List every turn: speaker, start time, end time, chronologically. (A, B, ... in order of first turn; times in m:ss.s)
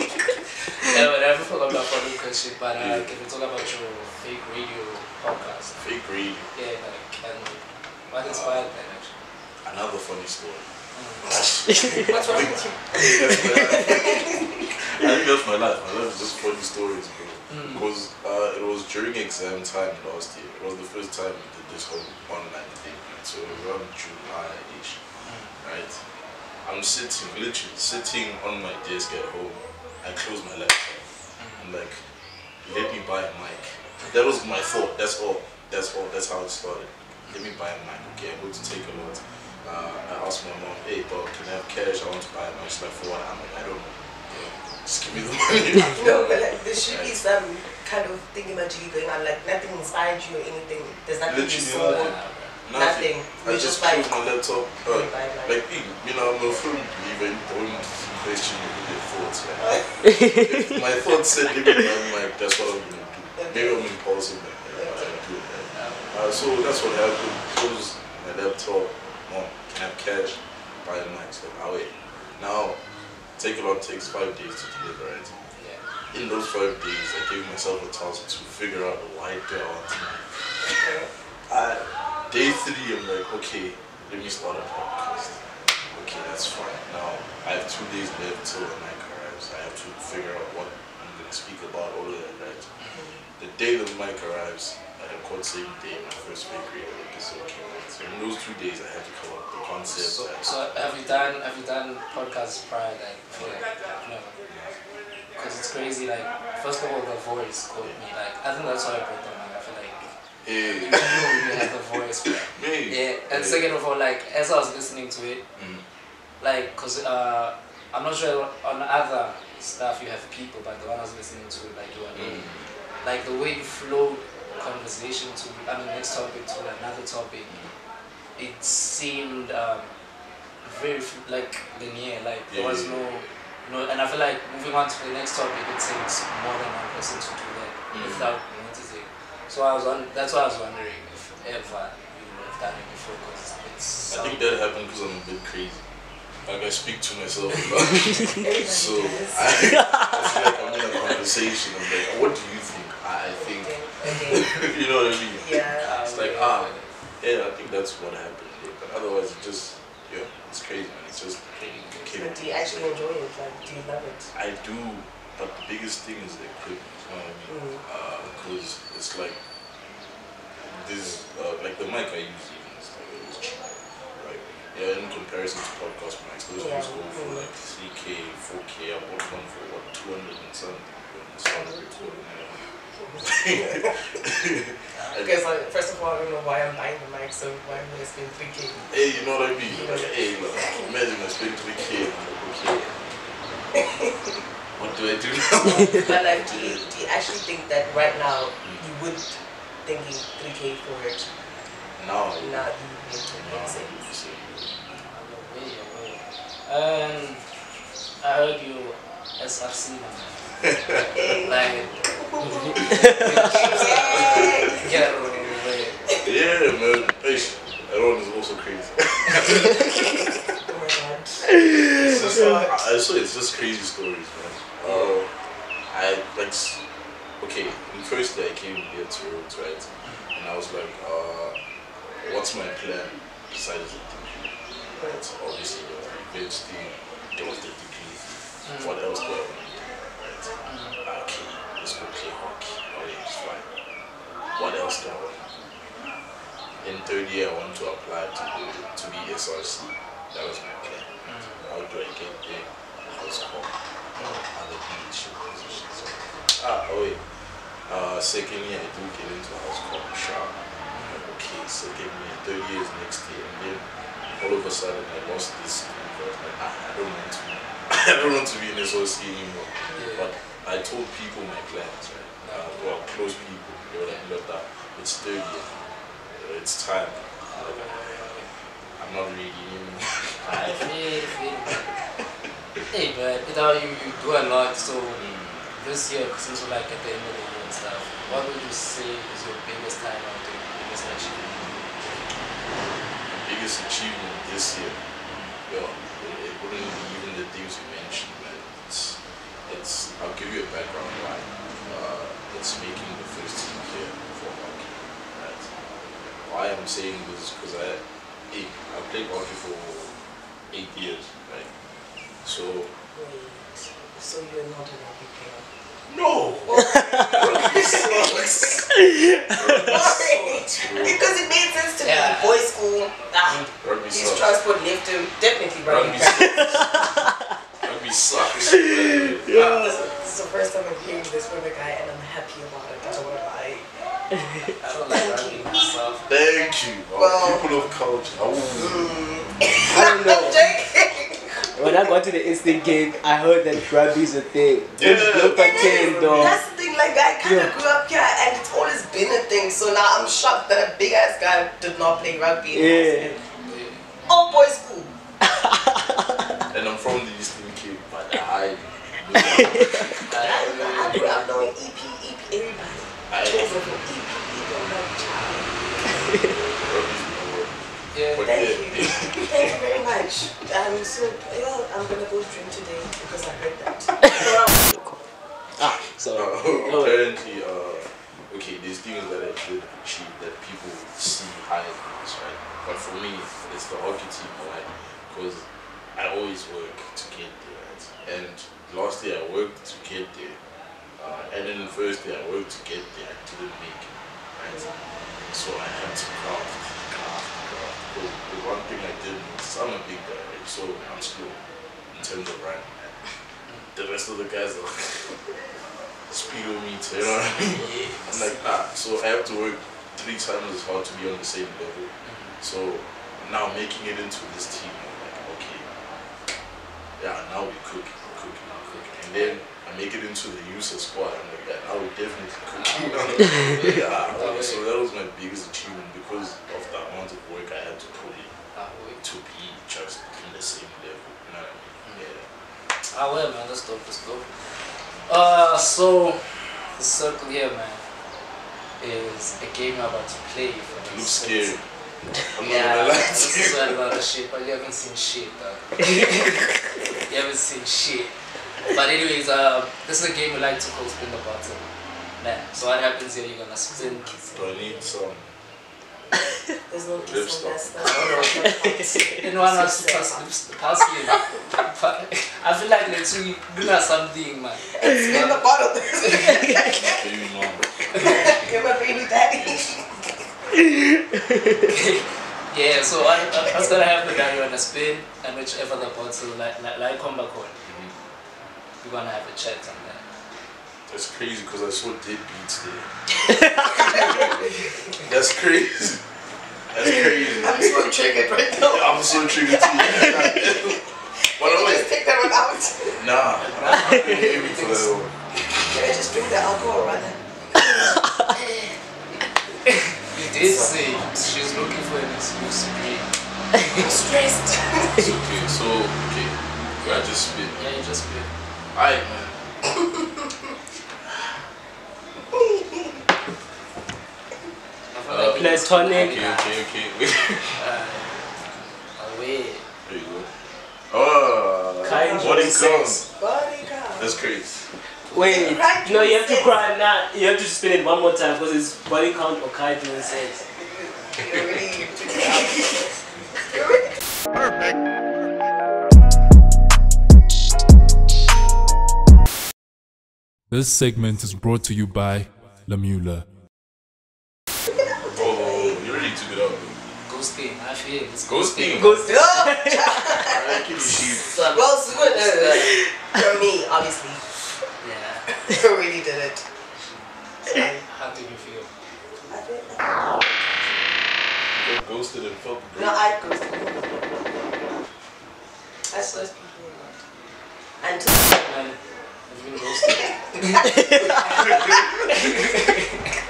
0:00.8-0:05.8 A
0:02.8-0:03.1 B
0:05.8-0:06.5 B
0:06.5-0:09.2 A
0:08.2-0:08.6 B
0:09.6-0:10.7 B
0:10.9-0:11.3 A
0:11.2-0:25.0 B
0:12.0-0:12.8 C
0:12.0-0:12.8 A
0:13.8-0:14.4 C
0:17.5-0:17.8 A
0:23.5-0:23.7 A
0:25.2-0:25.5 A
0:25.6-0:26.0 B
0:26.6-0:31.1 B
0:31.4-0:31.7 A
0:31.6-0:32.0 B
0:32.6-0:44.1 B
0:44.3-0:44.6 A
0:44.8-0:47.2 B
0:45.8-0:46.4 A
0:45.9-0:52.2 C
0:51.2-1:12.8 B
0:51.6-0:52.6 A
0:52.7-0:55.6 C
0:59.6-0:59.8 C
1:03.4-1:03.8 C
1:04.7-1:05.1 C
1:05.7-1:06.1 A
1:13.4-1:15.3 B
1:15.6-1:15.8 A
1:16.1-1:20.3 B
1:20.6-1:21.1 C
1:21.5-1:25.4 B
1:25.9-1:32.7 B
1:33.4-1:40.9 B
1:39.9-1:44.4 A
1:43.3-1:43.7 B
1:44.5-1:44.8 B
1:45.4-1:50.1 A
1:50.4-1:51.5 B
1:50.8-1:55.4 A
1:52.5-1:53.6 B
1:55.6-1:55.8 B
1:56.4-2:02.5 A
2:02.1-2:02.7 B
2:03.0-2:07.5 A
2:07.5-2:07.7 B
2:08.4-2:09.9 A
2:10.6-2:24.5 A
2:12.5-2:13.3 B
2:17.9-2:18.3 B
2:24.1-2:25.8 B
2:26.4-2:43.0 B
2:28.3-2:29.8 C
2:33.4-2:34.6 C
2:35.4-2:35.9 C
2:35.8-2:36.9 A
2:41.6-2:42.2 A
2:42.1-2:44.3 C
2:44.3-2:49.4 B
2:47.5-2:47.8 C
2:50.6-2:53.6 B
2:54.2-3:02.6 B
2:56.6-2:57.5 C
3:01.5-3:02.2 C
3:03.0-3:03.9 C
3:03.2-3:05.4 B
3:05.1-3:09.0 C
3:08.9-3:12.9 B
3:09.6-3:10.9 C
3:12.7-3:13.0 A
3:14.8-3:16.9 B
3:15.6-3:21.3 C
3:22.0-3:22.7 B
3:22.4-3:24.1 C
3:23.2-3:24.8 B
3:25.0-3:27.4 A
3:28.2-3:31.9 A
3:30.6-3:31.0 B
3:31.1-3:34.9 C
3:32.8-3:36.0 A
3:33.0-3:34.9 B
3:36.2-3:40.0 B
3:40.7-3:42.8 C
3:42.0-3:45.3 B
3:44.8-3:45.1 A
3:45.9-3:46.8 B
3:47.4-3:51.6 B
3:52.2-4:00.5 B
3:58.6-3:58.9 A
4:00.6-4:01.0 A
4:01.0-4:03.6 B
4:04.5-4:05.6 B
4:06.8-4:17.2 B
4:11.2-4:11.6 A
4:14.2-4:14.4 A
4:17.9-4:37.9 B
4:20.9-4:21.2 A
4:30.0-4:30.3 A
4:32.4-4:32.8 A
4:37.5-4:38.5 A
4:39.0-4:40.8 B
4:40.4-4:41.9 A
4:42.9-4:51.8 A
4:45.2-4:45.7 B
4:51.5-4:51.8 B
4:53.3-4:55.0 B
4:55.7-5:10.1 B
5:10.7-5:11.7 B
5:12.4-5:12.9 B
5:13.1-5:15.7 C
5:16.1-5:21.3 B
5:16.6-5:27.0 C
5:22.0-5:22.6 A
5:23.8-5:24.6 B
5:25.8-5:27.1 B
5:27.8-5:30.0 B
5:29.5-5:33.8 C
5:34.8-5:36.4 A
5:35.1-5:35.8 C
5:36.3-5:39.1 B
5:37.1-5:37.6 C
5:38.8-5:41.9 C
5:39.9-5:40.6 D
5:41.8-5:46.6 D
5:44.9-5:46.6 B
5:45.5-5:53.4 C
5:47.4-5:47.7 D
5:52.7-5:53.3 D
5:53.6-5:54.1 A
5:54.2-5:55.1 C
5:56.7-6:00.2 B
6:00.3-6:01.4 A
6:00.3-6:06.1 C
6:03.3-6:03.9 B
6:06.8-6:07.8 B
6:08.1-6:08.5 A
6:08.3-6:09.6 B
6:08.4-6:14.7 C
6:14.8-6:15.2 D
6:15.8-6:17.2 D
6:16.3-6:30.6 B
6:31.2-6:34.9 B
6:34.7-6:35.0 C
6:35.5-6:41.6 B
6:42.1-6:43.2 B
6:43.9-6:45.4 B
6:46.3-6:55.9 B
6:47.7-6:48.6 A
6:52.2-6:52.5 A
6:57.2-7:08.5 B
7:02.7-7:04.8 A
7:08.7-7:09.2 A
7:09.2-7:12.5 B
7:13.1-7:14.5 A
7:15.3-7:18.0 A
7:19.0-7:21.8 A
7:21.0-7:21.8 B
7:22.5-7:23.9 B
7:22.6-7:26.0 A
7:27.3-7:28.3 A
7:28.9-7:31.8 A
7:32.4-7:34.3 A
7:34.0-7:35.1 C
7:34.5-7:35.5 B
7:36.9-7:40.4 C
7:37.2-7:38.3 B
7:38.0-7:38.7 A
7:38.6-7:39.3 D
7:39.4-7:45.6 A
7:44.9-7:47.2 C
7:47.0-7:48.7 B
7:48.1-7:50.2 C
7:49.6-7:49.9 B
7:51.9-7:57.7 A
7:53.6-7:53.9 C
7:57.8-7:58.1 B
7:59.0-8:00.2 A
8:01.1-8:03.1 B
8:03.8-8:04.5 B
8:05.2-8:06.2 B
8:06.9-8:07.9 B
8:07.1-8:13.3 C
8:08.8-8:11.0 B
8:11.6-8:12.1 B
8:13.2-8:15.3 B
8:13.6-8:15.1 A
8:15.8-8:17.4 C
8:20.3-8:23.3 A
8:20.6-8:21.1 C
8:23.9-8:25.3 C
8:25.2-8:27.8 B
8:27.0-8:28.5 A
8:28.9-8:29.6 B
8:32.6-8:33.0 C
8:35.1-8:36.8 A
8:35.3-8:37.7 B
8:35.5-8:36.4 D
8:37.8-8:38.3 A
8:39.2-8:39.8 A
8:40.0-8:40.5 B
8:41.1-8:43.2 B
8:42.0-8:43.1 D
8:42.1-8:44.4 C
8:44.2-8:44.8 B
8:45.3-8:50.6 D
8:45.3-8:46.8 C
8:50.2-8:53.1 C
8:53.7-8:54.1 C
9:00.7-9:03.4 E
9:05.3-9:06.0 C
9:05.4-9:07.0 B
9:07.3-9:09.3 A
9:08.5-9:09.3 B
9:08.9-9:10.2 D
9:09.2-9:10.8 C
9:10.4-9:11.6 B
9:11.5-9:13.0 A
9:11.6-9:14.4 C
9:15.0-9:15.5 A
9:15.6-9:16.6 C
9:17.0-9:17.2 A
9:17.7-9:18.0 C
9:18.0-9:18.9 A
9:19.5-9:21.2 C
9:21.7-9:23.2 B
9:23.0-9:24.4 C
9:26.1-9:27.2 C
9:26.2-9:26.5 A
9:28.0-9:28.4 C
9:28.5-9:30.9 A
9:30.1-9:32.0 C
9:31.5-9:32.0 B
9:32.3-9:33.0 A